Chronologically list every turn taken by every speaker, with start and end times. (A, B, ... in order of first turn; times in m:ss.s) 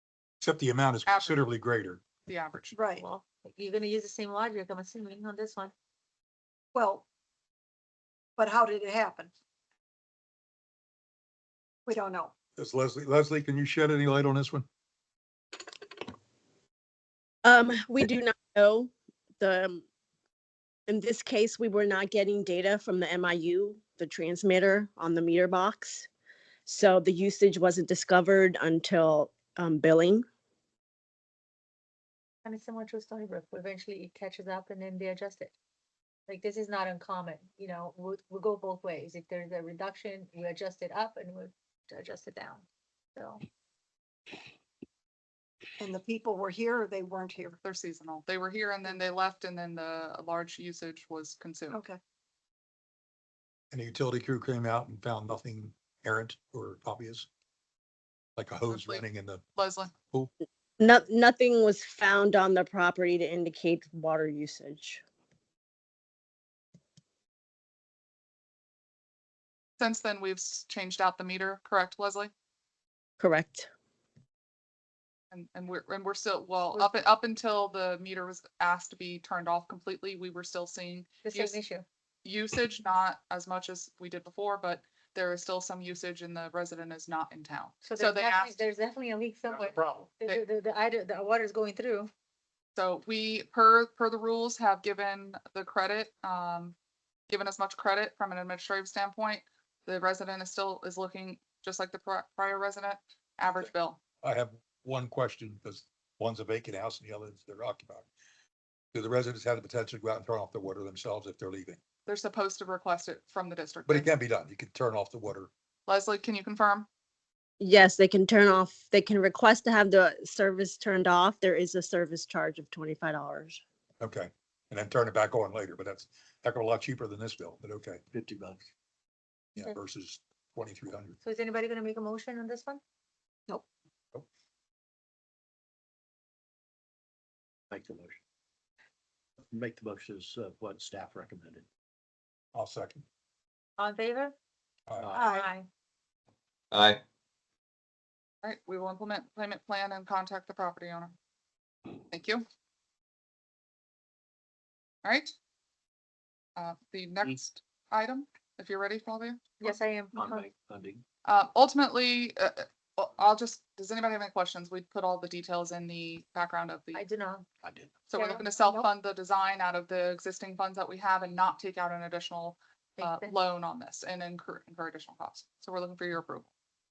0:00.4-0:02.0 A
0:01.0-0:01.4 B
0:02.3-0:02.8 B
0:02.7-0:03.0 C
0:02.9-0:05.7 D
0:06.7-0:07.0 C
0:08.4-0:09.3 C
0:11.8-0:12.3 C
0:12.6-0:14.6 A
0:17.4-0:19.8 E
0:20.9-0:26.1 E
0:26.6-0:30.2 E
0:32.4-0:35.5 D
0:36.3-0:42.6 D
0:43.2-0:43.4 D
0:45.8-0:47.6 C
0:47.6-0:51.8 B
0:51.7-0:52.0 C
0:53.7-0:57.3 A
0:58.4-0:59.4 A
0:58.7-0:59.9 B
1:00.8-1:05.0 E
1:09.8-1:12.3 B
1:13.2-1:13.7 E
1:15.3-1:21.6 B
1:21.2-1:21.8 D
1:22.2-1:28.6 B
1:27.8-1:32.1 D
1:32.7-1:36.7 B
1:37.3-1:44.0 B
1:44.2-1:48.1 A
1:48.9-1:51.8 A
1:52.0-1:54.1 B
1:53.9-1:55.5 A
1:55.9-1:56.9 B
1:57.6-2:03.6 E
2:04.0-2:08.0 A
2:08.1-2:08.6 F
2:09.6-2:11.2 A
2:11.2-2:12.8 D
2:17.7-2:18.2 F
2:19.5-2:21.6 F
2:22.5-2:23.0 A
2:23.8-2:24.3 D
2:24.9-2:25.2 A
2:25.1-2:25.5 C
2:25.2-2:25.7 D
2:28.4-2:31.1 B
2:32.1-2:32.4 B
2:35.0-2:35.3 B
2:36.6-2:39.6 B
2:39.6-2:40.4 D
2:40.1-2:41.0 F
2:41.2-2:47.0 B
2:46.9-2:47.4 D
2:47.6-2:47.9 F
2:48.1-2:56.5 B
2:48.1-2:48.9 C
2:53.0-2:53.3 D